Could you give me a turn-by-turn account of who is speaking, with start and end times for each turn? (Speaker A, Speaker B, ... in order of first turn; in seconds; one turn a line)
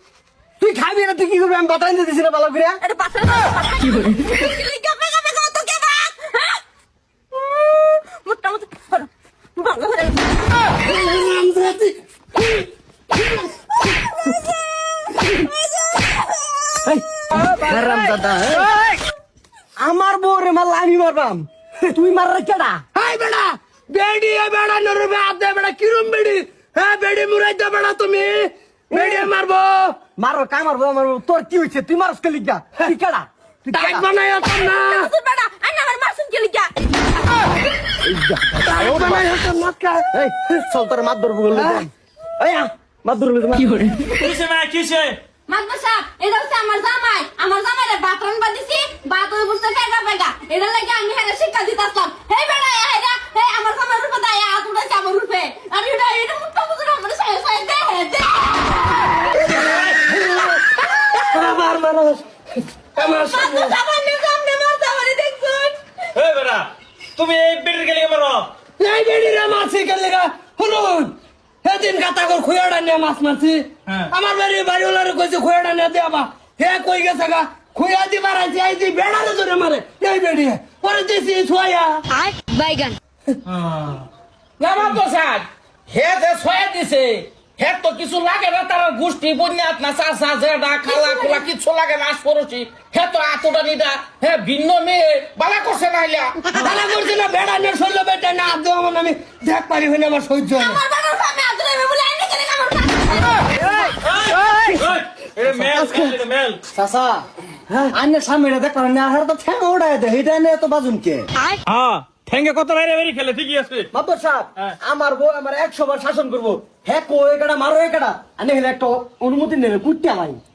Speaker A: 0.6-2.8
Speaker B: 2.8-6.6
Speaker B: 7.3-10.6
Speaker C: 10.8-12.6
Speaker A: 16.9-18.8
Speaker A: 19.8-22.8
Speaker C: 22.9-30.0
Speaker A: 28.9-29.3
Speaker A: 30.2-34.1
Speaker C: 33.7-35.1
Speaker B: 34.6-37.5
Speaker A: 38.1-39.2
Speaker C: 38.6-40.2
Speaker A: 40.1-44.0
Speaker C: 41.5-41.8
Speaker D: 44.1-45.2
Speaker B: 45.5-59.0
Speaker D: 59.5-60.0
Speaker C: 60.0-60.6
Speaker B: 60.5-61.2
Speaker C: 61.1-62.2
Speaker C: 63.0-63.8
Speaker B: 63.0-65.8
Speaker D: 66.1-68.5
Speaker C: 68.8-71.1
Speaker C: 71.6-82.0
Speaker B: 82.1-83.0
Speaker D: 83.5-84.1
Speaker E: 84.6-96.4
Speaker D: 84.8-85.0
Speaker B: 90.8-91.5
Speaker C: 96.6-100.8
Speaker B: 100.5-103.7
Speaker D: 103.8-106.6
Speaker A: 105.7-106.1
Speaker A: 106.7-111.3
Speaker D: 111.7-113.9
Speaker A: 113.9-120.4